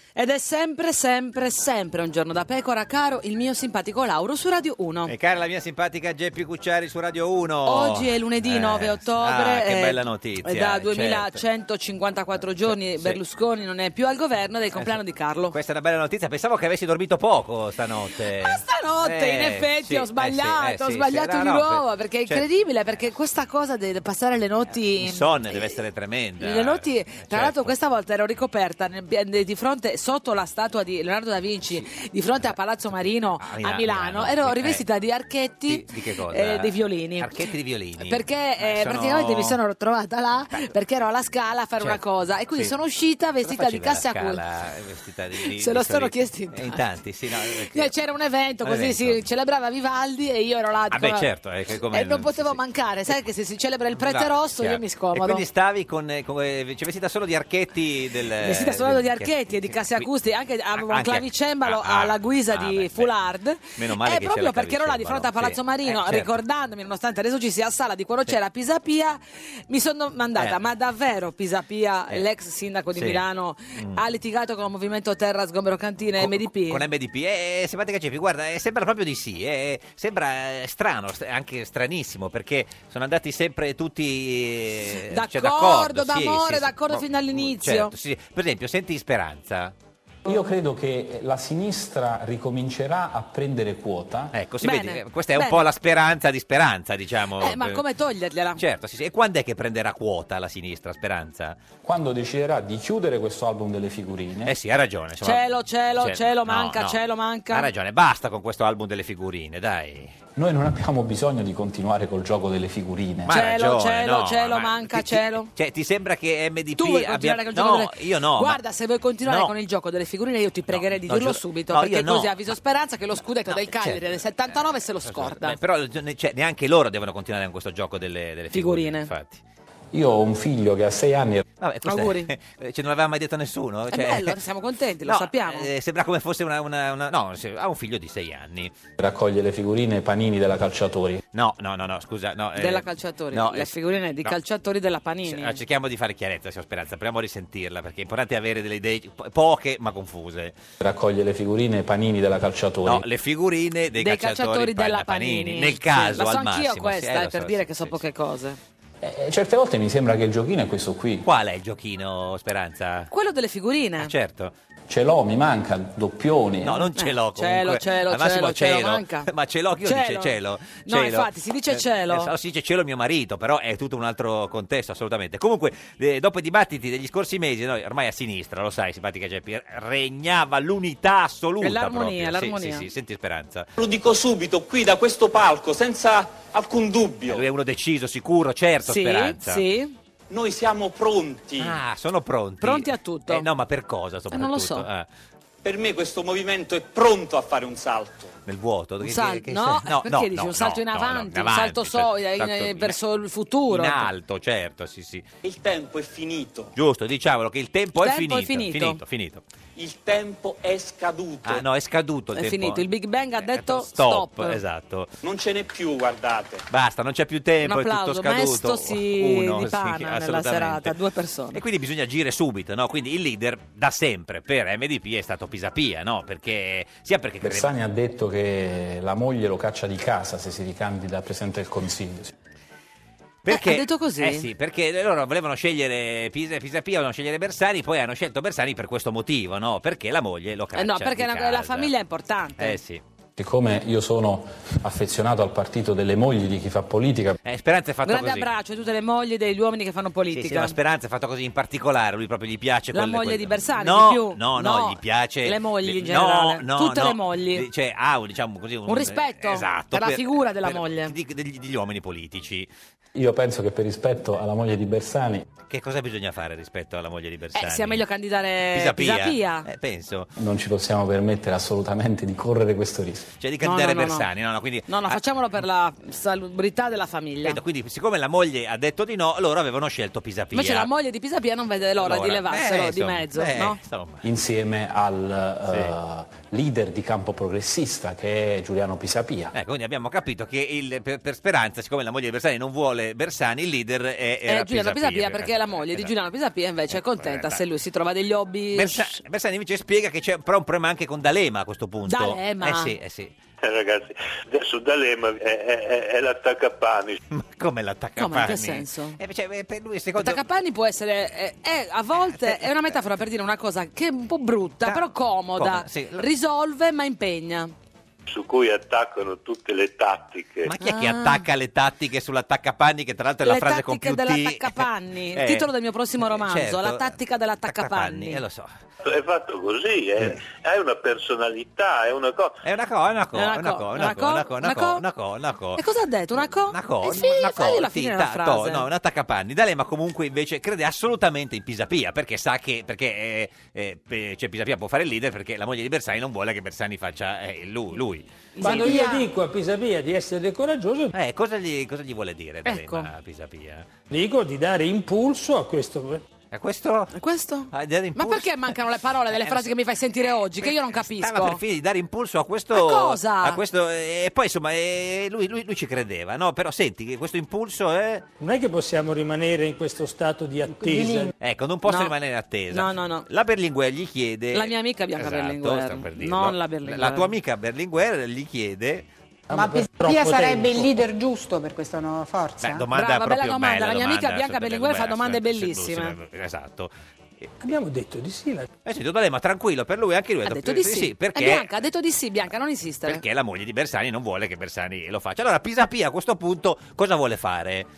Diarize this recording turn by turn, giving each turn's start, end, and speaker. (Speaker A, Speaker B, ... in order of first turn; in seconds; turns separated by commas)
Speaker A: 0.1-5.1, Speaker B: 5.0-11.4, Speaker A: 7.7-15.5, Speaker B: 12.6-13.2, Speaker B: 14.8-15.0, Speaker B: 15.5-22.4, Speaker A: 18.4-25.7, Speaker B: 25.0-27.7, Speaker A: 26.4-37.3, Speaker B: 32.9-34.8, Speaker B: 35.7-39.6, Speaker A: 38.0-44.4, Speaker B: 43.4-47.9, Speaker A: 45.4-46.8, Speaker A: 47.7-51.2, Speaker B: 48.6-49.2, Speaker B: 50.9-53.2, Speaker A: 51.9-55.4, Speaker B: 53.9-60.1, Speaker A: 58.4-76.8, Speaker B: 60.7-63.1, Speaker B: 63.8-66.3, Speaker B: 72.9-73.2, Speaker B: 76.2-89.7, Speaker A: 84.9-87.9, Speaker C: 90.2-94.3, Speaker B: 94.3-97.8, Speaker A: 94.6-95.6, Speaker A: 97.4-98.6, Speaker B: 98.6-101.6, Speaker C: 101.8-104.5, Speaker B: 104.5-105.5, Speaker A: 105.2-107.7, Speaker B: 106.0-110.2, Speaker C: 110.3-113.3, Speaker B: 113.3-118.6, Speaker A: 113.3-115.5, Speaker A: 116.8-125.5, Speaker B: 119.2-119.5, Speaker B: 120.7-122.5, Speaker B: 123.5-124.2, Speaker B: 125.0-129.4, Speaker A: 128.5-129.1, Speaker C: 129.9-131.4, Speaker B: 131.6-134.4, Speaker A: 131.8-132.3, Speaker A: 133.9-135.7, Speaker B: 135.0-138.7, Speaker C: 139.0-141.2, Speaker B: 141.3-144.3, Speaker A: 142.6-145.6, Speaker B: 145.2-150.6, Speaker C: 150.8-153.0, Speaker B: 152.8-158.0, Speaker A: 154.0-158.6, Speaker C: 159.0-161.2, Speaker B: 161.2-163.1, Speaker A: 163.1-164.1, Speaker B: 164.0-164.5, Speaker C: 164.9-166.8, Speaker B: 166.6-183.7, Speaker A: 166.9-169.3, Speaker A: 169.8-170.3, Speaker A: 170.8-172.3, Speaker A: 181.6-182.8, Speaker D: 183.8-187.4, Speaker B: 187.3-189.6, Speaker A: 188.8-189.9, Speaker D: 190.3-191.8, Speaker B: 191.6-195.1, Speaker A: 192.6-193.4, Speaker A: 194.3-194.8, Speaker D: 195.6-198.3, Speaker B: 198.4-203.0, Speaker A: 199.0-204.1, Speaker B: 203.7-205.2, Speaker D: 205.4-206.7, Speaker B: 206.7-209.4, Speaker A: 207.9-209.0, Speaker D: 209.8-211.6, Speaker B: 211.4-215.1, Speaker A: 212.3-214.6, Speaker D: 215.2-216.6, Speaker B: 216.7-220.9, Speaker A: 217.7-221.6, Speaker B: 221.5-227.7, Speaker C: 227.4-232.3, Speaker B: 233.4-241.9, Speaker A: 233.5-234.5, Speaker A: 240.8-242.8, Speaker B: 242.6-243.0, Speaker C: 243.4-247.4, Speaker B: 247.4-248.5, Speaker A: 248.1-250.8, Speaker B: 250.3-262.7, Speaker A: 252.9-257.6, Speaker A: 258.9-261.1, Speaker C: 263.1-265.4, Speaker B: 265.7-268.0, Speaker A: 267.5-269.6, Speaker B: 268.7-270.3, Speaker C: 270.4-273.3, Speaker B: 273.4-275.2, Speaker A: 273.6-274.3, Speaker A: 274.9-277.6, Speaker B: 277.4-280.9, Speaker A: 280.5-283.8, Speaker B: 282.0-284.2, Speaker C: 284.2-289.5, Speaker B: 289.5-296.1, Speaker A: 294.5-299.2, Speaker B: 296.9-297.6, Speaker B: 298.7-303.3, Speaker A: 302.1-302.9, Speaker E: 303.6-307.2, Speaker B: 307.3-310.4, Speaker A: 308.2-309.2, Speaker A: 310.2-317.7, Speaker B: 312.3-312.9, Speaker B: 314.8-316.3, Speaker E: 318.3-320.7, Speaker B: 320.6-328.7, Speaker A: 320.8-321.4, Speaker A: 323.4-328.4, Speaker E: 329.0-332.6, Speaker B: 332.6-335.8, Speaker A: 333.3-335.0, Speaker A: 335.8-338.9, Speaker B: 336.7-349.2, Speaker A: 348.6-349.2, Speaker F: 348.6-351.1, Speaker B: 351.1-353.9, Speaker A: 352.6-353.1, Speaker F: 354.1-356.2, Speaker B: 356.5-357.1, Speaker A: 357.1-361.6, Speaker B: 357.7-358.7, Speaker B: 359.3-359.7, Speaker B: 360.6-368.2, Speaker A: 362.7-363.6, Speaker F: 368.4-371.3, Speaker B: 371.4-379.1, Speaker A: 371.9-372.1, Speaker A: 372.7-373.2, Speaker A: 374.5-377.3, Speaker F: 379.5-380.9, Speaker G: 379.5-382.8, Speaker B: 382.6-386.9, Speaker A: 382.9-386.1, Speaker F: 387.6-388.7, Speaker B: 388.8-391.7, Speaker A: 390.4-393.2, Speaker B: 393.1-397.9